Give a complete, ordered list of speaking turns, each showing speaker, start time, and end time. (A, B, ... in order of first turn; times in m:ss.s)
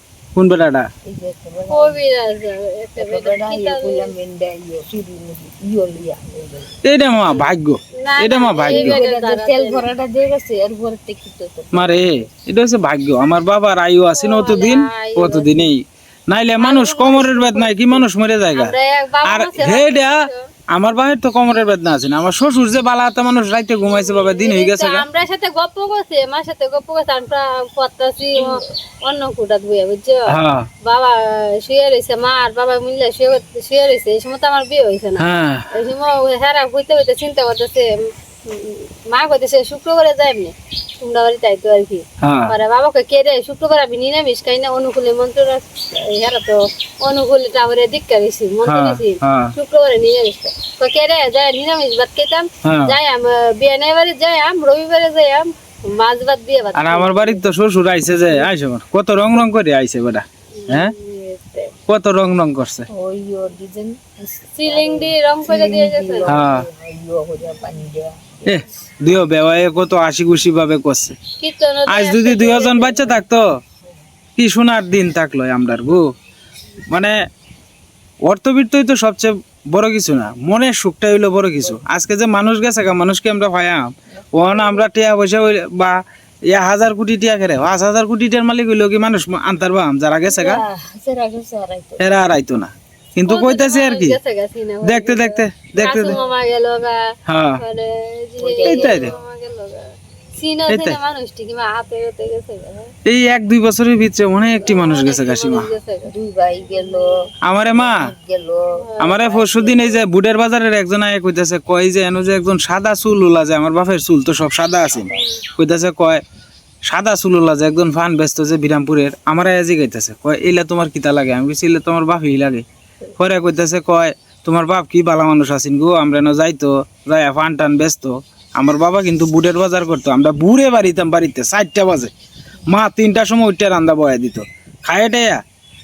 0:00.3-0:00.9 A
0:01.0-0:02.0 B
0:01.7-0:04.1 C
0:03.0-0:06.7 B
0:06.8-0:09.0 A
0:08.0-0:09.8 C
0:08.6-0:12.3 B
0:11.7-0:25.0 A
0:14.2-0:15.6 C
0:16.6-0:18.0 C
0:18.5-0:20.5 C
0:23.9-0:57.4 C
0:28.4-0:28.6 B
0:30.3-0:30.7 A
0:35.2-0:35.7 A
0:42.2-0:42.5 A
0:48.6-0:49.5 A
0:52.6-0:53.0 A
0:56.7-1:00.9 A
1:00.6-1:01.7 C
1:01.9-1:02.9 A
1:02.9-1:08.7 B
1:04.6-1:06.3 C
1:06.3-1:06.7 A
1:08.4-1:11.2 A
1:11.4-1:13.2 C
1:11.9-1:13.4 A
1:14.4-1:16.1 A
1:16.9-1:17.2 A
1:18.2-1:30.6 A
1:24.1-1:24.5 B
1:30.3-1:32.2 B
1:32.0-1:34.2 A
1:33.2-1:42.9 C
1:34.8-1:36.2 A
1:36.1-1:36.3 B
1:37.2-1:37.6 A
1:38.4-1:39.2 B
1:38.6-1:39.1 A
1:40.7-1:41.0 A
1:43.0-1:45.7 A
1:44.6-1:46.1 C
1:46.1-1:50.0 B
1:46.7-1:47.3 C
1:47.4-1:48.1 A
1:48.9-1:49.1 C
1:49.0-1:56.2 A
1:56.8-2:02.6 A
2:03.2-2:12.1 A
2:12.6-2:15.4 A